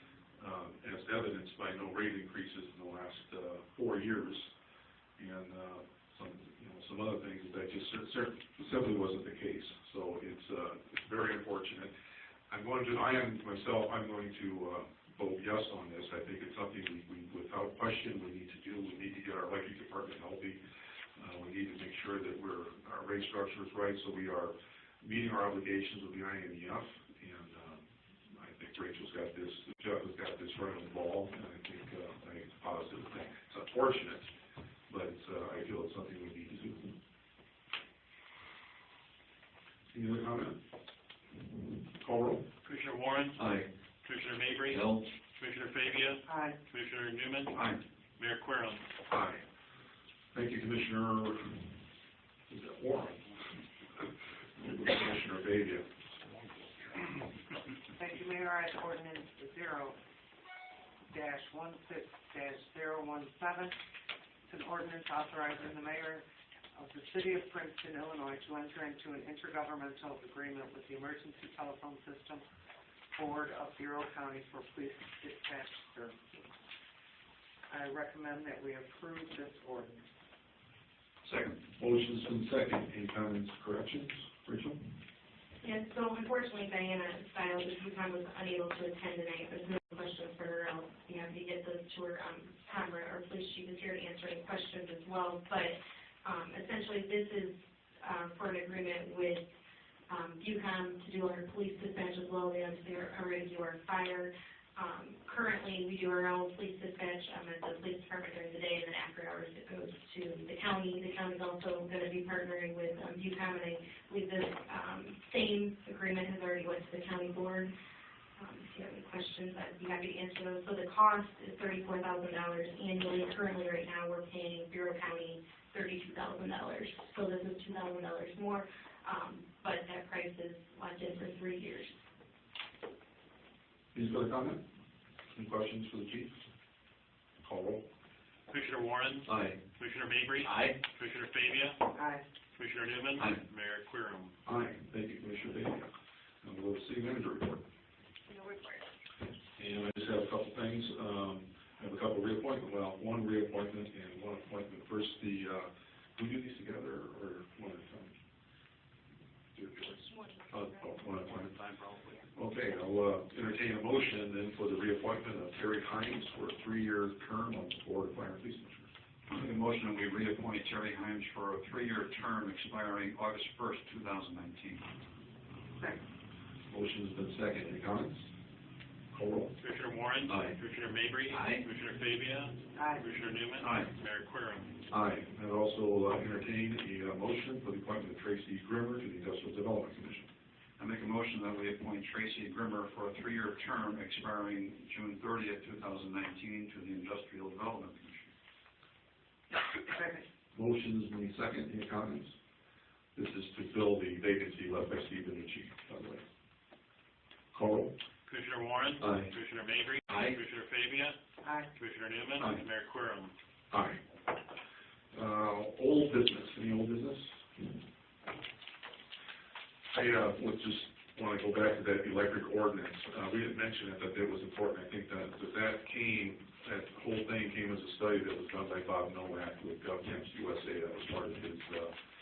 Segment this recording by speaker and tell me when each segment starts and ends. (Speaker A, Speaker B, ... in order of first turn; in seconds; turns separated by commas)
Speaker A: 0.4-4.5, Speaker A: 5.2-11.9, Speaker A: 12.5-20.6, Speaker A: 21.2-34.3, Speaker A: 34.9-37.0, Speaker A: 39.9-40.6, Speaker A: 41.8-42.5, Speaker B: 42.6-43.4, Speaker C: 43.4-43.7, Speaker B: 44.0-44.8, Speaker C: 44.7-45.1, Speaker B: 45.4-47.5, Speaker D: 46.3-46.6, Speaker C: 47.5-47.8, Speaker B: 48.2-48.9, Speaker A: 49.1-49.5, Speaker A: 50.3-51.8, Speaker A: 52.5-53.3, Speaker A: 54.0-55.9, Speaker D: 58.0-60.0, Speaker D: 61.1-63.8, Speaker D: 64.5-72.5, Speaker D: 73.2-76.5, Speaker D: 77.7-80.0, Speaker C: 81.2-81.6, Speaker A: 81.8-85.0, Speaker E: 85.6-99.4, Speaker E: 100.1-117.7, Speaker E: 118.4-132.0, Speaker A: 133.9-134.7, Speaker A: 135.3-136.4, Speaker A: 137.4-137.8, Speaker B: 138.5-141.8, Speaker C: 139.3-139.6, Speaker C: 140.4-140.8, Speaker D: 141.9-142.2, Speaker B: 142.6-144.4, Speaker A: 144.4-145.9, Speaker A: 146.4-147.7, Speaker D: 148.3-148.8, Speaker A: 149.6-158.2, Speaker A: 159.5-161.6, Speaker E: 160.1-160.9, Speaker A: 162.3-168.9, Speaker C: 169.3-174.9, Speaker A: 176.7-178.3, Speaker A: 179.1-179.6, Speaker B: 179.6-184.8, Speaker C: 180.3-180.6, Speaker C: 181.3-181.7, Speaker D: 182.8-183.0, Speaker C: 183.6-183.9, Speaker A: 184.9-190.3, Speaker C: 190.8-198.3, Speaker D: 199.9-200.2, Speaker A: 200.5-202.3, Speaker A: 203.2-206.2, Speaker A: 207.5-207.9, Speaker B: 208.3-211.2, Speaker C: 210.1-210.4, Speaker D: 211.4-211.7, Speaker B: 211.8-213.3, Speaker A: 213.7-214.1, Speaker A: 215.1-217.8, Speaker A: 219.9-232.0